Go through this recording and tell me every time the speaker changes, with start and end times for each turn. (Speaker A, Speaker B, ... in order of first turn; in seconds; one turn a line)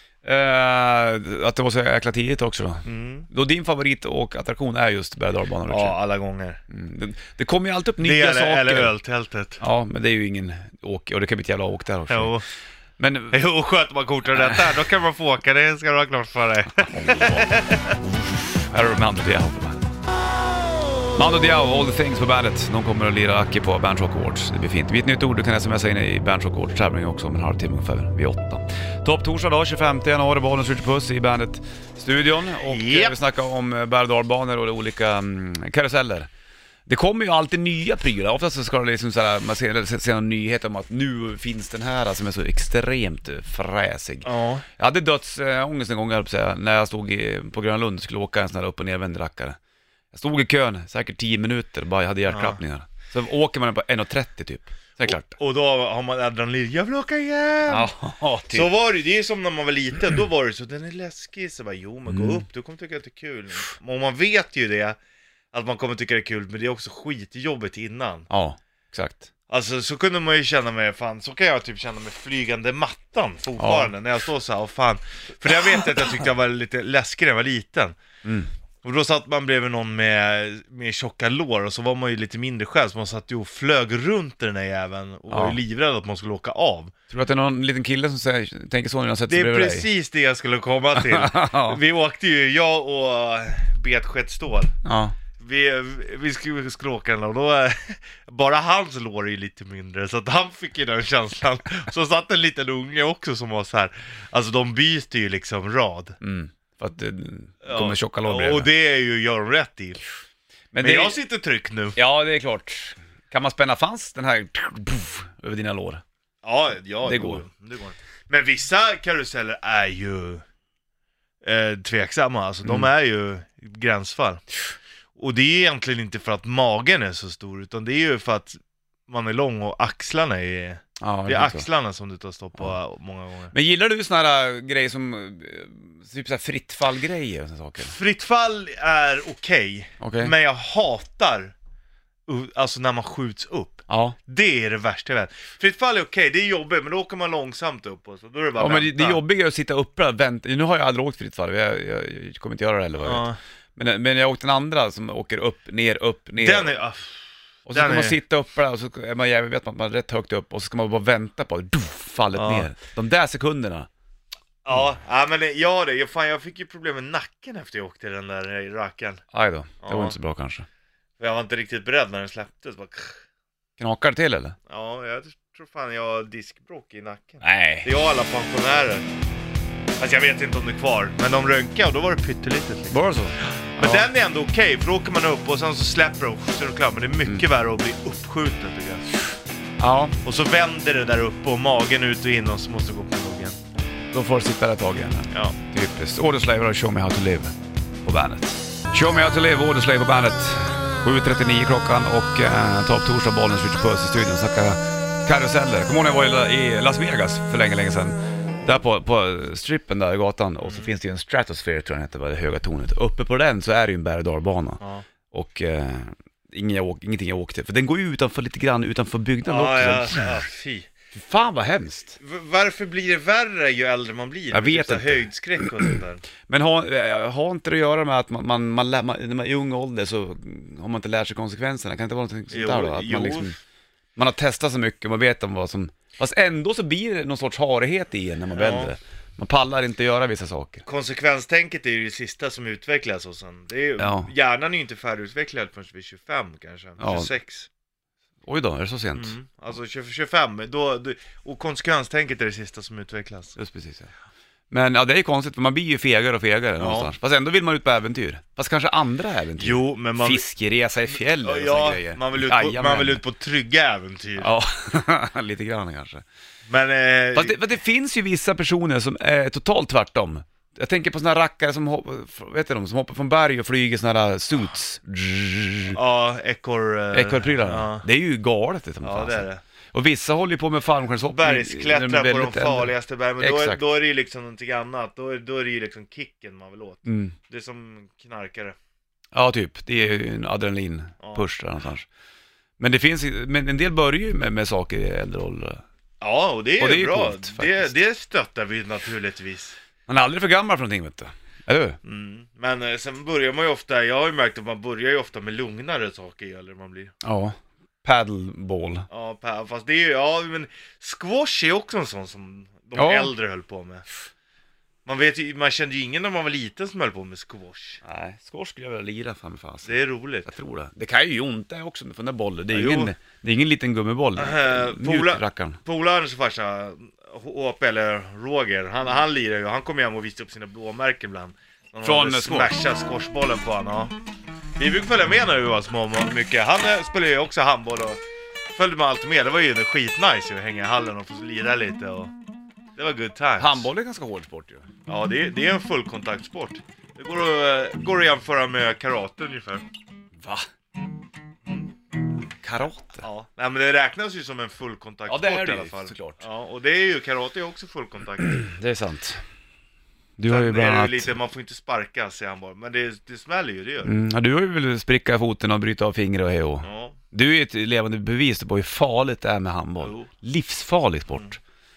Speaker A: 0.2-6.0
Speaker B: 2.8-3.3
Speaker B: 5.7-6.6
Speaker A: 6.7-8.9
Speaker B: 8.0-9.6
Speaker A: 9.6-12.4
Speaker B: 12.1-12.4
Speaker A: 13.0-13.4
Speaker B: 13.3-17.9
Speaker A: 14.3-14.6
Speaker A: 16.8-19.9
Speaker A: 21.1-36.3
Speaker B: 32.6-33.2
Speaker A: 36.9-49.6
Speaker B: 44.2-44.6
Speaker A: 50.1-55.3
Speaker B: 52.3-52.6
Speaker B: 55.0-57.9
Speaker A: 57.7-58.7
Speaker B: 58.5-65.0
Speaker A: 62.1-62.4
Speaker B: 65.5-68.3
Speaker A: 68.3-69.3
Speaker B: 69.5-78.0
Speaker A: 73.6-73.9
Speaker A: 78.2-78.5
Speaker B: 78.8-86.9
Speaker A: 85.3-85.6
Speaker A: 87.1-89.9
Speaker B: 89.3-94.7
Speaker A: 91.0-91.8
Speaker A: 94.8-95.2
Speaker B: 95.4-106.2
Speaker A: 106.2-108.7
Speaker B: 107.6-110.0
Speaker A: 110.7-111.2
Speaker B: 110.8-112.0
Speaker A: 112.0-116.0
Speaker B: 116.4-120.4
Speaker A: 117.0-117.4
Speaker B: 121.4-124.4
Speaker A: 122.6-122.9
Speaker B: 125.2-133.5
Speaker A: 131.0-131.7
Speaker A: 133.5-137.9
Speaker B: 137.8-141.5
Speaker A: 140.0-140.3
Speaker B: 142.3-149.2
Speaker A: 143.9-144.2
Speaker A: 148.6-156.7
Speaker B: 152.9-153.4
Speaker B: 156.4-158.2
Speaker A: 157.7-163.9
Speaker B: 162.3-162.7
Speaker B: 164.6-169.2
Speaker A: 169.3-170.7
Speaker B: 169.8-170.2
Speaker B: 171.2-173.2
Speaker A: 173.8-174.6
Speaker B: 174.7-179.0
Speaker A: 177.4-177.9
Speaker B: 180.0-183.0
Speaker A: 182.9-184.1
Speaker B: 183.8-189.1
Speaker A: 189.8-190.2
Speaker B: 190.2-193.6
Speaker A: 194.1-220.4
Speaker B: 195.3-195.6
Speaker B: 210.6-210.9
Speaker B: 219.4-220.9
Speaker A: 221.1-222.2
Speaker B: 222.2-226.2
Speaker A: 224.5-225.9
Speaker A: 226.5-233.6
Speaker B: 232.5-233.5
Speaker A: 234.2-240.8
Speaker B: 238.5-238.9
Speaker B: 240.9-247.7
Speaker A: 244.0-244.3
Speaker A: 247.0-247.3
Speaker A: 248.4-249.3
Speaker B: 249.1-253.6
Speaker A: 253.6-254.1
Speaker A: 254.7-263.2
Speaker B: 256.8-257.1
Speaker B: 259.6-260.4
Speaker B: 261.1-264.5
Speaker A: 264.4-266.2
Speaker B: 266.7-267.6
Speaker A: 267.3-276.0
Speaker B: 275.9-278.1
Speaker A: 277.1-283.8
Speaker B: 279.0-279.6
Speaker B: 281.2-288.8
Speaker A: 287.0-287.3
Speaker A: 289.3-292.1
Speaker A: 292.8-295.8
Speaker B: 296.2-299.8
Speaker A: 296.8-297.9
Speaker A: 300.1-302.0
Speaker B: 302.0-307.1
Speaker A: 307.2-309.1
Speaker B: 309.1-314.1
Speaker A: 312.9-313.3
Speaker B: 315.1-318.0
Speaker A: 318.0-325.8
Speaker B: 319.8-320.5
Speaker B: 322.7-323.1
Speaker B: 324.4-334.1
Speaker A: 332.0-332.8
Speaker B: 334.8-338.2
Speaker B: 338.7-342.3
Speaker B: 342.9-343.9
Speaker A: 343.6-344.9
Speaker B: 345.1-349.8
Speaker A: 350.4-350.7
Speaker A: 352.6-353.2
Speaker B: 353.2-358.6
Speaker A: 355.3-356.4
Speaker A: 358.4-359.4
Speaker A: 360.4-361.4
Speaker B: 360.5-364.1
Speaker A: 364.0-371.6
Speaker B: 366.8-367.2
Speaker B: 370.0-370.3